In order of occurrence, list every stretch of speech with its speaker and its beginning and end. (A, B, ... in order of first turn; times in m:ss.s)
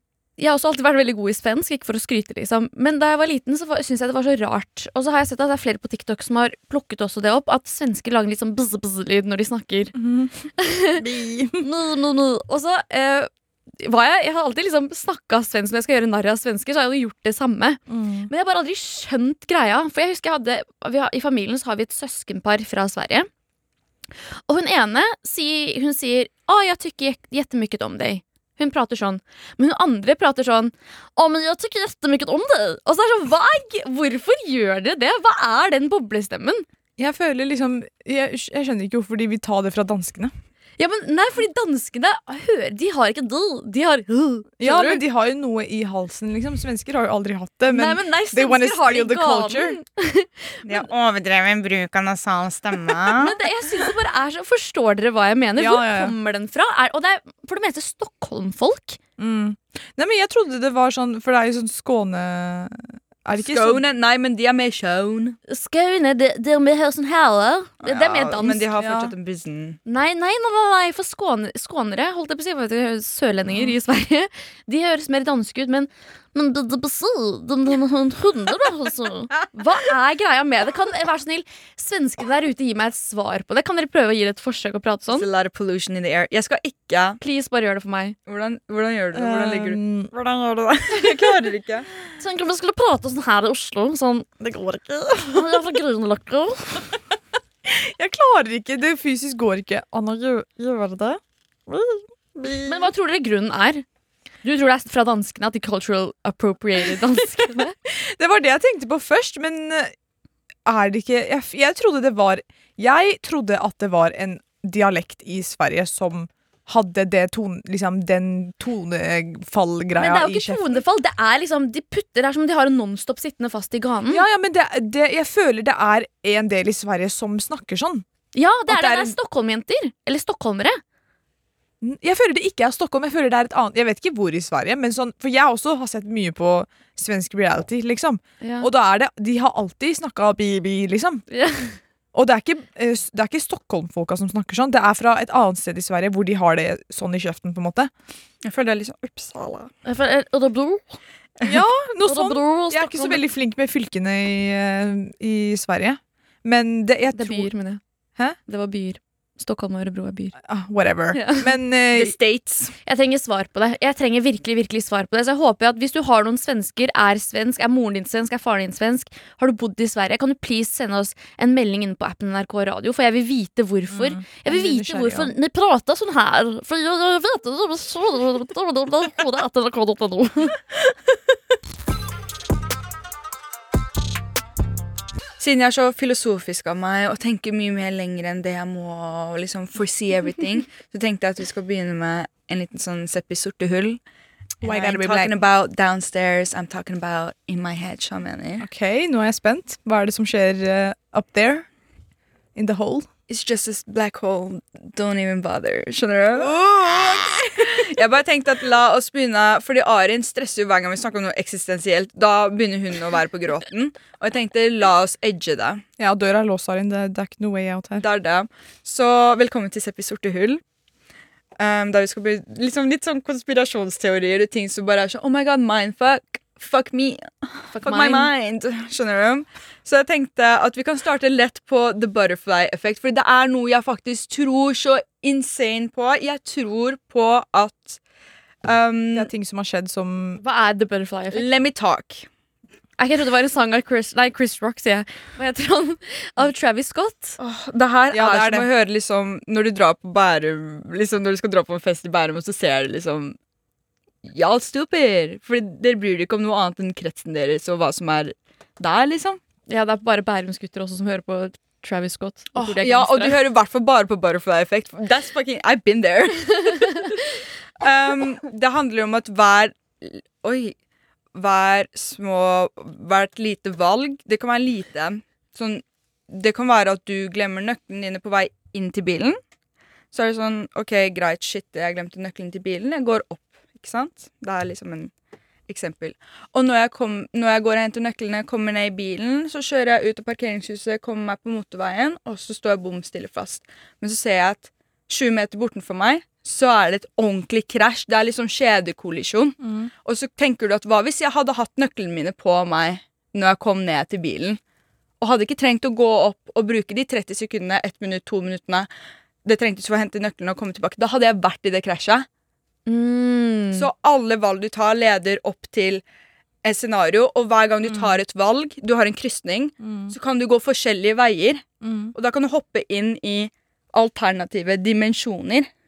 0:00.4-0:09.9 A
0:09.9-0:10.3 B
0:10.6-0:11.0 A
0:11.0-0:11.7 B
0:11.6-0:13.3 A
0:13.8-0:23.3 A
0:17.9-0:18.3 B
0:24.5-0:36.6 A
0:37.0-0:40.3 B
0:40.8-0:45.0 A
0:44.6-0:49.8 B
0:47.7-0:50.8 A
0:50.6-0:53.3 C
0:53.1-0:59.0 A
0:55.6-0:56.1 B
0:59.2-1:03.8 B
1:03.3-1:05.4 C
1:05.5-1:08.7 A
1:07.8-1:09.8 C
1:08.8-1:09.1 B
1:09.8-1:25.3 A
1:25.1-1:27.2 C
1:27.2-1:28.2 A
1:28.2-1:31.9 C
1:29.1-1:30.1 B
1:32.2-1:34.3 A
1:34.4-1:35.6 B
1:35.3-1:36.9 A
1:37.6-1:42.9 B
1:42.6-1:43.8 A
1:44.4-1:47.7 A
1:47.8-1:49.9 B
1:50.6-2:00.8 B
2:00.0-2:04.2 A
2:04.1-2:08.0 B
2:08.3-2:10.8 A
2:08.7-2:09.1 B
2:11.8-2:21.2 B
2:18.4-2:18.7 A
2:21.3-2:21.8 A
2:22.1-2:27.9 B
2:28.4-2:29.7 C
2:29.8-2:31.0 A
2:31.4-2:37.5 B
2:32.0-2:33.2 A
2:37.1-2:37.8 A
2:38.5-2:40.3 A
2:40.4-2:42.1 B
2:41.1-2:41.5 A
2:41.9-2:42.7 C
2:42.8-3:00.6 A
2:53.9-2:55.3 B
3:05.4-3:14.0 C
3:14.6-3:18.6 C
3:14.6-3:15.4 B
3:18.6-3:21.6 B
3:22.5-3:23.1 B
3:23.3-3:26.6 C
3:26.4-3:27.8 B
3:27.6-3:35.8 C
3:36.0-3:38.0 B
3:38.0-3:40.6 C
3:41.6-3:58.0 C
3:47.7-3:48.3 A
3:58.6-3:59.3 C
3:59.1-4:00.4 B
4:00.4-4:01.5 A
4:01.3-4:02.3 C
4:03.0-4:07.4 A
4:07.4-4:13.4 C
4:08.1-4:08.7 B
4:14.2-4:19.4 C
4:19.7-4:23.4 A
4:22.5-4:27.1 C
4:27.8-4:30.7 C
4:31.3-4:39.4 C
4:40.1-4:45.1 C
4:45.7-5:04.6 C
4:59.6-4:59.9 B
5:05.2-5:08.9 C
5:09.4-5:12.3 C
5:12.8-5:13.9 A
5:13.7-5:16.0 C
5:16.6-5:21.6 C
5:17.8-5:18.2 B
5:19.8-5:20.1 B
5:21.8-5:22.1 B
5:22.1-5:25.7 C